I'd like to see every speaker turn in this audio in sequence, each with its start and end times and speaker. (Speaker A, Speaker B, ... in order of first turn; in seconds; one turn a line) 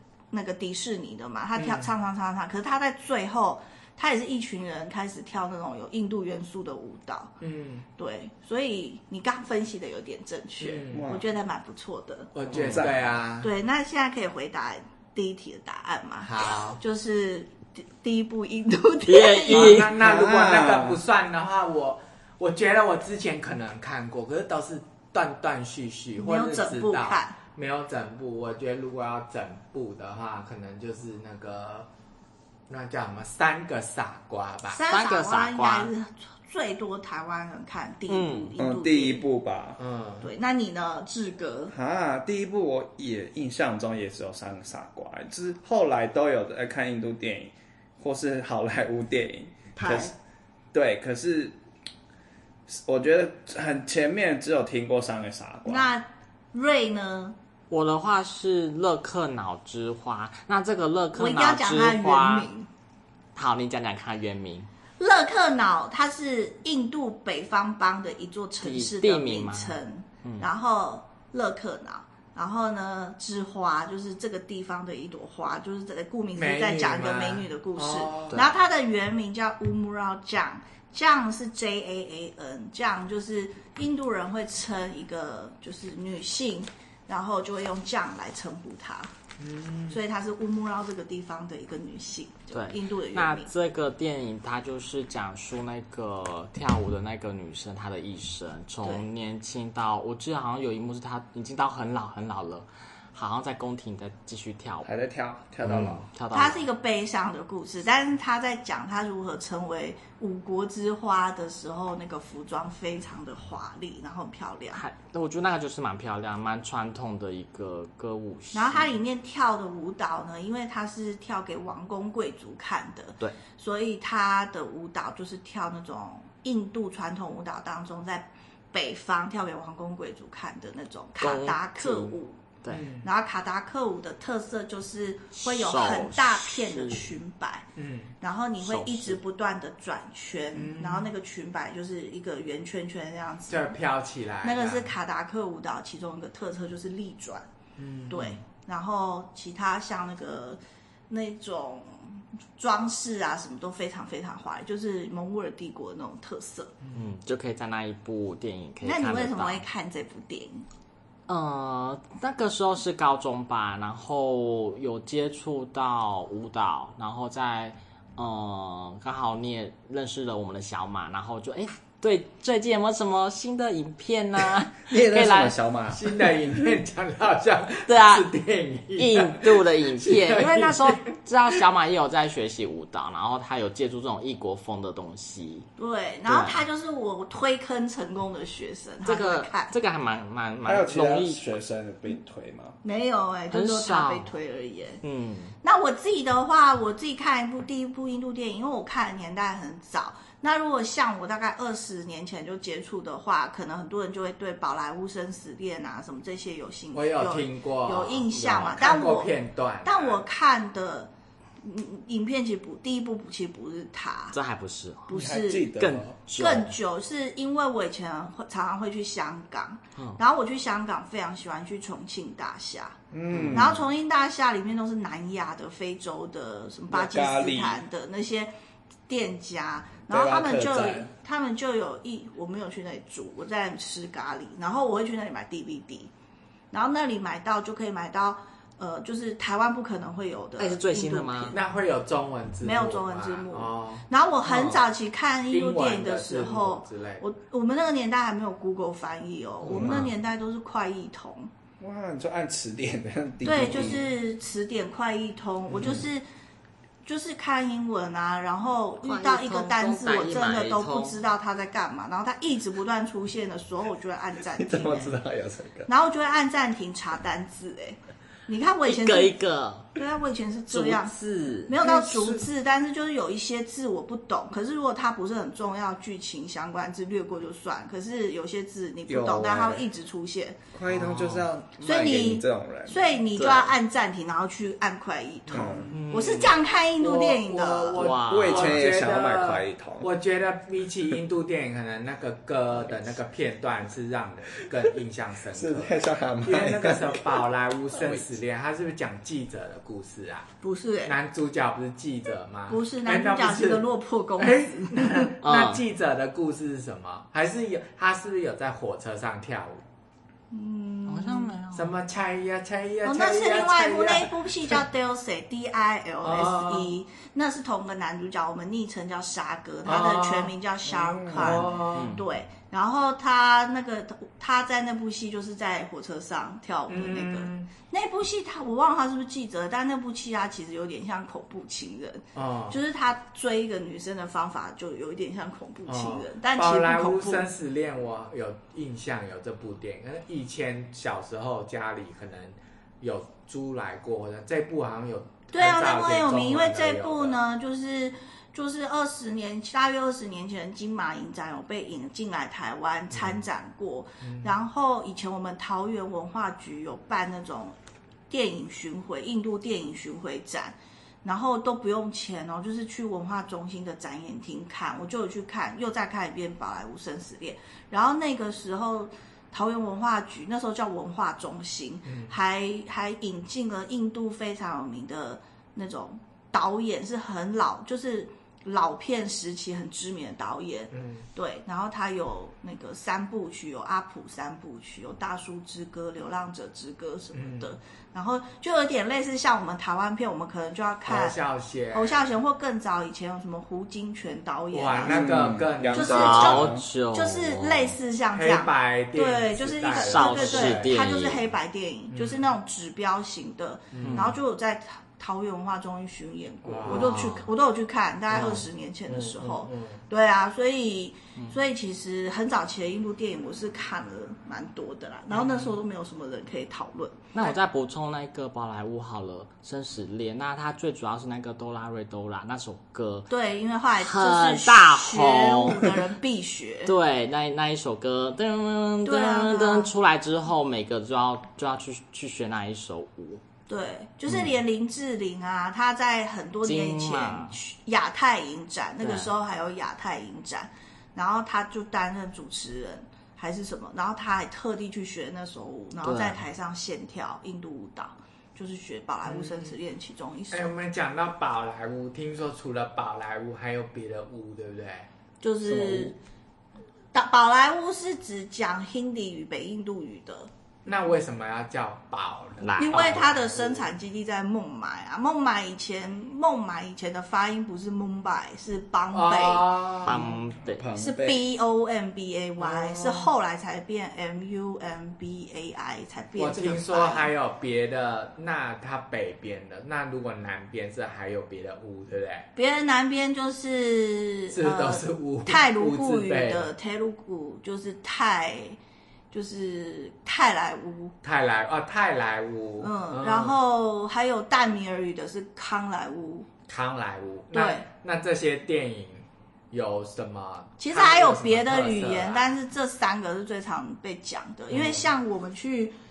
Speaker A: 0.3-7.3
Speaker B: 1.6-1.9
Speaker B: 7.4-7.9
Speaker A: 8.0-12.3
Speaker B: 10.6-11.1
Speaker C: 10.9-11.3
Speaker B: 12.3-13.5
Speaker C: 12.5-13.1
Speaker A: 13.4-19.8
Speaker B: 16.2-16.8
Speaker D: 19.1-20.0
Speaker B: 19.5-31.9
Speaker C: 19.9-21.0
Speaker A: 26.2-27.4
Speaker B: 32.7-34.8
Speaker A: 34.7-39.2
Speaker D: 34.9-35.9
Speaker D: 38.1-38.5
Speaker C: 38.6-39.8
Speaker B: 39.8-40.3
Speaker A: 40.2-41.7
Speaker C: 41.7-50.1
Speaker A: 49.8-50.1
Speaker C: 50.7-51.6
Speaker C: 52.7-55.9
Speaker A: 55.7-57.4
Speaker D: 57.7-62.5
Speaker A: 61.2-62.7
Speaker D: 63.4-64.7
Speaker A: 65.0-89.1
Speaker D: 68.6-70.5
Speaker B: 76.3-78.4
Speaker B: 89.4-90.0
Speaker A: 89.9-93.5
Speaker D: 92.5-104.9
Speaker C: 104.8-106.1
Speaker D: 105.6-106.7
Speaker A: 106.3-114.8
Speaker D: 114.8-119.0
Speaker A: 118.5-132.4
Speaker D: 131.2-132.9
Speaker B: 132.7-133.1
Speaker A: 133.0-137.7
Speaker D: 135.4-137.2
Speaker B: 137.8-138.1
Speaker A: 138.2-143.8
Speaker D: 138.6-139.2
Speaker B: 140.6-141.1
Speaker B: 143.5-144.9
Speaker A: 144.4-147.5
Speaker B: 147.8-148.4
Speaker A: 148.1-156.7
Speaker D: 156.9-159.6
Speaker A: 158.8-160.7
Speaker D: 161.3-175.6
Speaker C: 174.9-176.7
Speaker B: 175.9-181.0
Speaker D: 177.9-178.3
Speaker D: 179.0-185.7
Speaker A: 185.8-189.7
Speaker D: 186.3-186.6
Speaker D: 189.1-191.4
Speaker C: 190.7-192.8
Speaker A: 192.8-195.0
Speaker D: 193.5-194.3
Speaker D: 195.0-195.6
Speaker A: 195.6-209.3
Speaker B: 206.9-210.2
Speaker A: 209.8-211.1
Speaker A: 211.6-214.4
Speaker D: 214.3-215.1
Speaker A: 215.1-215.7
Speaker C: 215.1-216.2
Speaker D: 215.8-216.7
Speaker A: 216.3-223.0
Speaker C: 223.1-223.8
Speaker D: 223.3-223.8
Speaker A: 223.5-228.5
Speaker C: 226.9-227.8
Speaker A: 229.1-236.1
Speaker C: 230.1-231.1
Speaker A: 236.7-241.6
Speaker D: 240.6-241.6
Speaker B: 241.5-244.1
Speaker A: 242.6-251.5
Speaker D: 244.4-244.8
Speaker B: 245.5-247.2
Speaker C: 249.7-250.1
Speaker B: 249.7-250.1
Speaker C: 251.8-254.1
Speaker A: 253.4-256.2
Speaker A: 257.1-265.2
Speaker D: 259.0-261.2
Speaker C: 264.5-265.9
Speaker A: 265.9-269.4
Speaker D: 268.9-269.9
Speaker A: 269.9-271.1
Speaker D: 270.7-272.4
Speaker A: 271.7-280.6
Speaker C: 279.1-279.9
Speaker C: 280.7-283.2
Speaker D: 280.9-281.5
Speaker A: 281.8-288.0
Speaker D: 283.4-283.7
Speaker C: 285.5-285.9
Speaker B: 285.9-286.4
Speaker D: 285.9-286.5
Speaker B: 287.0-300.5
Speaker D: 288.0-288.9
Speaker C: 288.2-290.1
Speaker C: 295.5-298.4
Speaker A: 300.6-301.1
Speaker B: 301.1-303.9
Speaker A: 302.7-305.4
Speaker B: 304.4-309.8
Speaker D: 305.4-305.8
Speaker A: 310.5-311.6
Speaker D: 311.1-311.9
Speaker B: 311.7-314.8
Speaker A: 313.0-337.5
Speaker B: 316.2-316.9
Speaker B: 319.9-320.5
Speaker C: 320.9-321.7
Speaker B: 321.3-322.2
Speaker D: 321.9-322.2
Speaker B: 326.9-327.7
Speaker B: 332.4-332.8
Speaker B: 335.9-347.4
Speaker A: 345.5-357.8
Speaker B: 353.1-353.4
Speaker B: 354.2-354.5
Speaker A: 358.3-391.4
Speaker B: 372.1-372.4
Speaker B: 380.9-381.3
Speaker B: 387.3-387.7
Speaker B: 391.1-392.2
Speaker A: 391.9-417.6
Speaker B: 394.7-396.5
Speaker C: 395.1-396.9
Speaker D: 396.1-398.0
Speaker B: 398.3-401.0
Speaker D: 399.9-401.5
Speaker B: 402.1-402.5
Speaker B: 403.9-404.4
Speaker D: 404.0-404.3
Speaker B: 406.6-407.2
Speaker D: 406.9-407.5
Speaker B: 408.3-410.0
Speaker B: 415.3-415.8
Speaker D: 417.4-423.3
Speaker A: 423.3-426.9
Speaker D: 424.0-426.0
Speaker D: 426.9-433.4
Speaker A: 429.1-429.9
Speaker A: 433.7-450.7
Speaker D: 436.6-437.6
Speaker D: 439.0-439.3
Speaker D: 446.0-446.4
Speaker B: 449.2-449.8
Speaker B: 450.5-455.1
Speaker A: 455.4-456.2
Speaker C: 455.7-456.1
Speaker A: 457.1-460.5
Speaker B: 460.9-463.9
Speaker D: 462.6-463.2
Speaker A: 462.8-469.7
Speaker B: 469.1-470.4
Speaker D: 470.1-470.9
Speaker C: 470.7-471.4
Speaker A: 471.0-477.3
Speaker B: 472.6-473.3
Speaker B: 476.4-482.5
Speaker A: 482.6-488.8
Speaker B: 484.5-486.7
Speaker A: 489.3-491.1
Speaker B: 491.2-493.6
Speaker A: 492.8-496.5
Speaker B: 496.7-502.6
Speaker A: 497.5-497.9
Speaker A: 500.8-505.9
Speaker B: 504.7-505.0